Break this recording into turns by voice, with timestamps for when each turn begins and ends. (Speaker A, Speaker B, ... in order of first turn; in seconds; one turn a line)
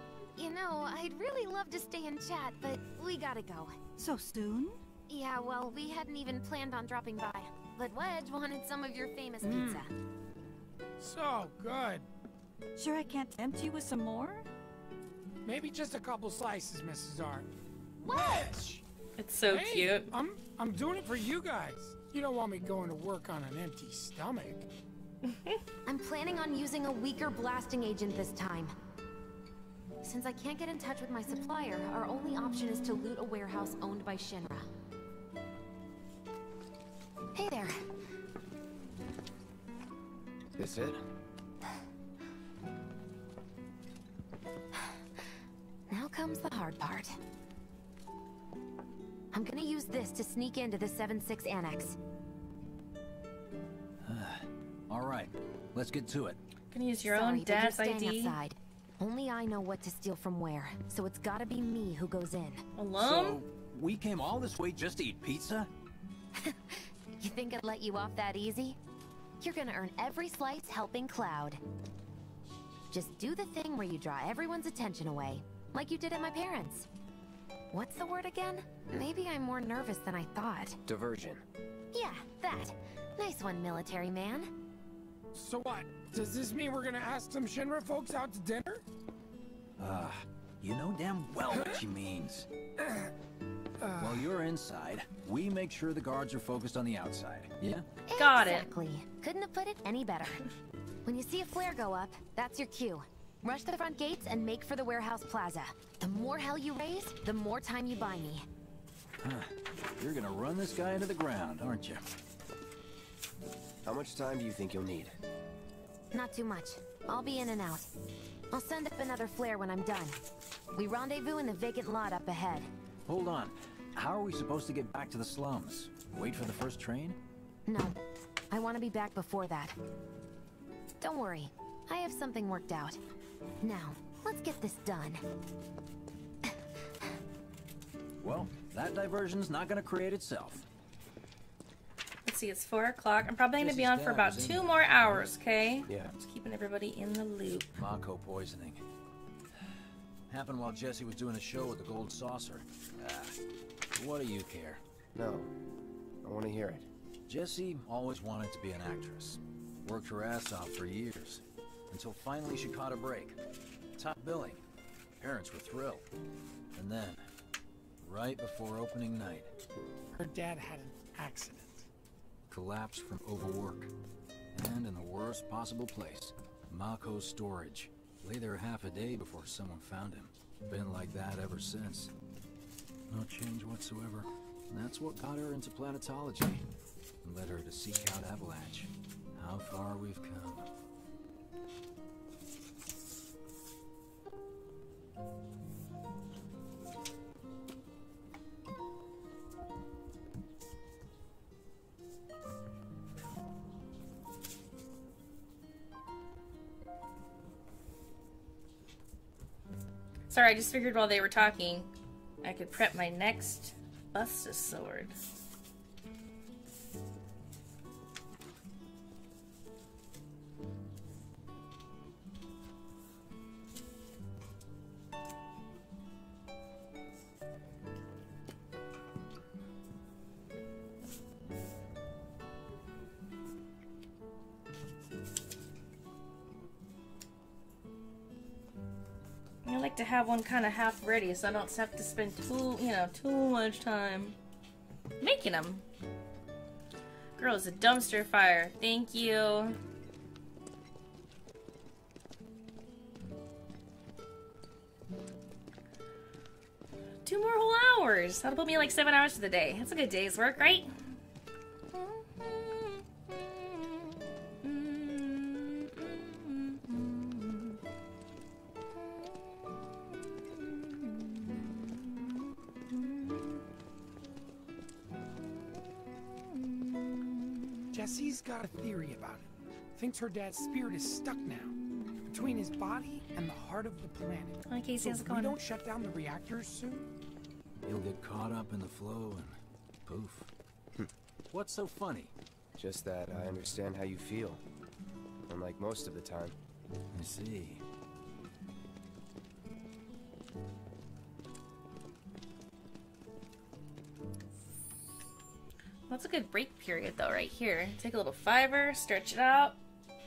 Speaker A: 0.4-3.8
Speaker B: 4.0-4.8
Speaker A: 5.1-9.9
Speaker C: 9.4-9.8
Speaker C: 11.0-12.1
Speaker B: 12.8-14.5
Speaker C: 15.4-17.5
Speaker A: 18.1-18.6
Speaker C: 18.3-18.8
Speaker D: 19.2-20.1
Speaker C: 19.5-24.7
Speaker D: 25.3-25.6
Speaker A: 25.9-28.8
Speaker A: 30.0-34.7
Speaker A: 37.4-37.8
Speaker E: 40.6-41.0
Speaker A: 45.9-47.2
Speaker A: 49.3-51.9
Speaker F: 54.0-56.4
Speaker D: 56.7-58.4
Speaker A: 57.0-62.6
Speaker D: 62.8-63.4
Speaker F: 63.0-65.7
Speaker A: 66.4-68.8
Speaker A: 69.4-71.6
Speaker A: 72.9-76.9
Speaker A: 77.7-80.8
Speaker E: 80.9-81.4
Speaker A: 81.9-84.5
Speaker C: 85.3-88.8
Speaker F: 89.8-92.5
Speaker C: 91.5-91.8
Speaker C: 93.8-94.2
Speaker F: 94.0-97.8
Speaker A: 98.1-100.4
Speaker D: 98.2-98.7
Speaker A: 101.1-108.5
Speaker F: 109.2-112.0
Speaker E: 113.8-115.2
Speaker A: 116.1-117.9
Speaker A: 118.5-120.2
Speaker A: 120.7-122.7
Speaker F: 123.1-127.2
Speaker A: 127.7-128.0
Speaker A: 128.5-129.8
Speaker A: 131.0-133.0
Speaker A: 133.6-135.2
Speaker F: 138.2-140.6
Speaker D: 142.2-147.7
Speaker F: 143.6-145.3
Speaker E: 145.9-146.1
Speaker F: 147.8-148.8
Speaker F: 150.3-153.4
Speaker F: 153.9-154.8
Speaker E: 155.1-155.5
Speaker E: 156.2-156.9
Speaker F: 157.3-163.4
Speaker F: 164.0-164.6
Speaker F: 165.2-166.1
Speaker F: 166.7-167.2
Speaker F: 168.0-169.5
Speaker C: 170.1-171.9
Speaker F: 172.5-173.9
Speaker F: 174.6-182.1
Speaker F: 183.1-186.6
Speaker F: 187.2-190.7
Speaker D: 210.3-211.9
Speaker D: 212.4-215.2
Speaker D: 239.6-244.4
Speaker D: 245.2-245.8
Speaker D: 247.4-249.8
Speaker D: 257.3-260.9
Speaker D: 261.9-267.8
Speaker D: 270.6-271.8
Speaker D: 273.0-273.3
Speaker C: 277.9-281.8
Speaker C: 282.3-287.1
Speaker D: 284.7-285.6
Speaker F: 287.9-289.6
Speaker F: 290.1-290.5
Speaker F: 291.5-292.3
Speaker E: 292.8-294.6
Speaker E: 295.5-296.6
Speaker F: 297.1-297.8
Speaker D: 306.1-309.8